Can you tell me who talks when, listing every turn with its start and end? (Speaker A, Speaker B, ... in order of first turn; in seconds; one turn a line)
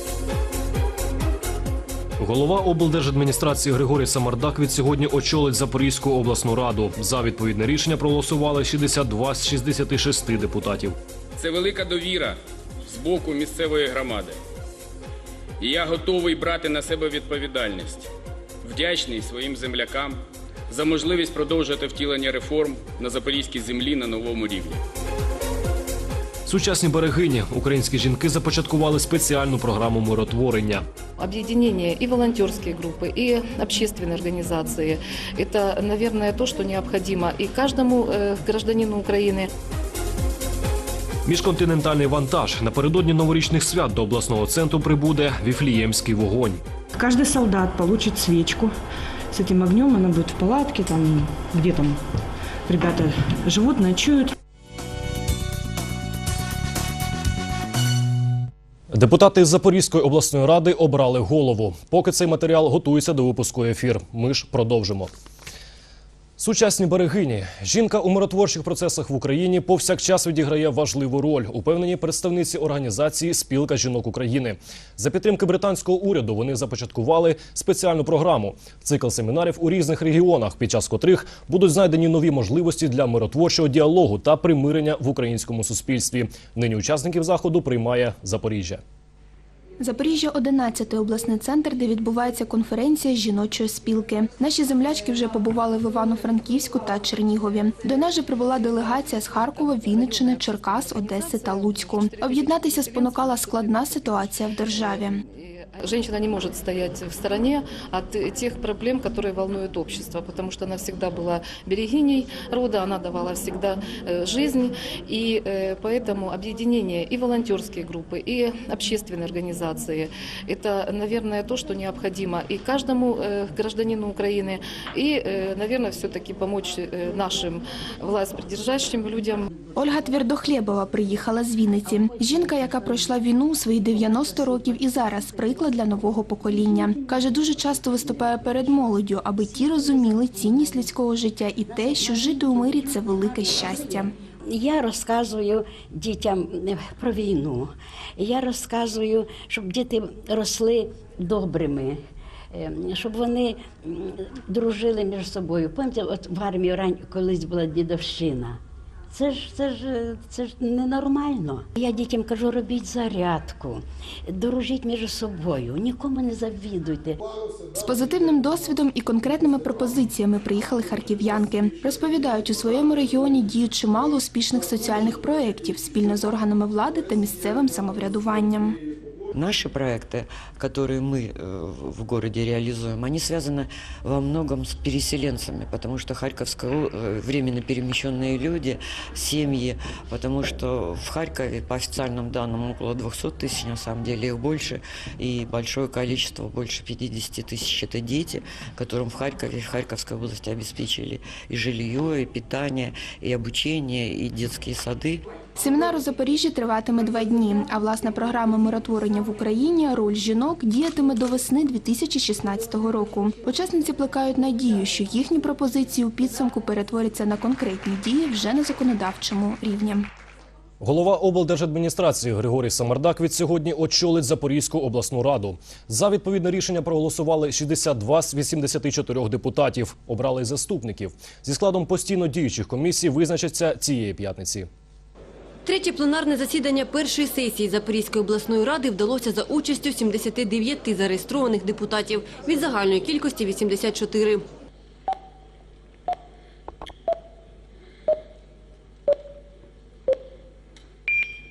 Speaker A: 2.2-11.0
Speaker B: 11.4-12.4
Speaker B: 12.9-14.4
Speaker B: 15.6-18.1
Speaker B: 18.6-24.8
Speaker A: 26.5-30.9
Speaker C: 31.2-39.5
Speaker A: 41.3-46.6
Speaker D: 47.0-48.7
Speaker D: 49.3-52.0
Speaker D: 52.7-54.3
Speaker A: 58.9-65.1
Speaker A: 66.4-88.8
Speaker E: 89.8-105.2
Speaker C: 99.5-129.5
Speaker E: 129.8-144.1
Speaker F: 144.6-147.7
Speaker F: 148.2-151.9
Speaker F: 152.7-153.5
Speaker F: 154.5-158.6
Speaker F: 159.1-163.8
Speaker F: 164.4-167.2
Speaker E: 167.7-178.8
Speaker G: 179.3-205.2
Speaker E: 205.6-220.1
Speaker A: 220.8-234.7
Speaker H: 235.7-244.4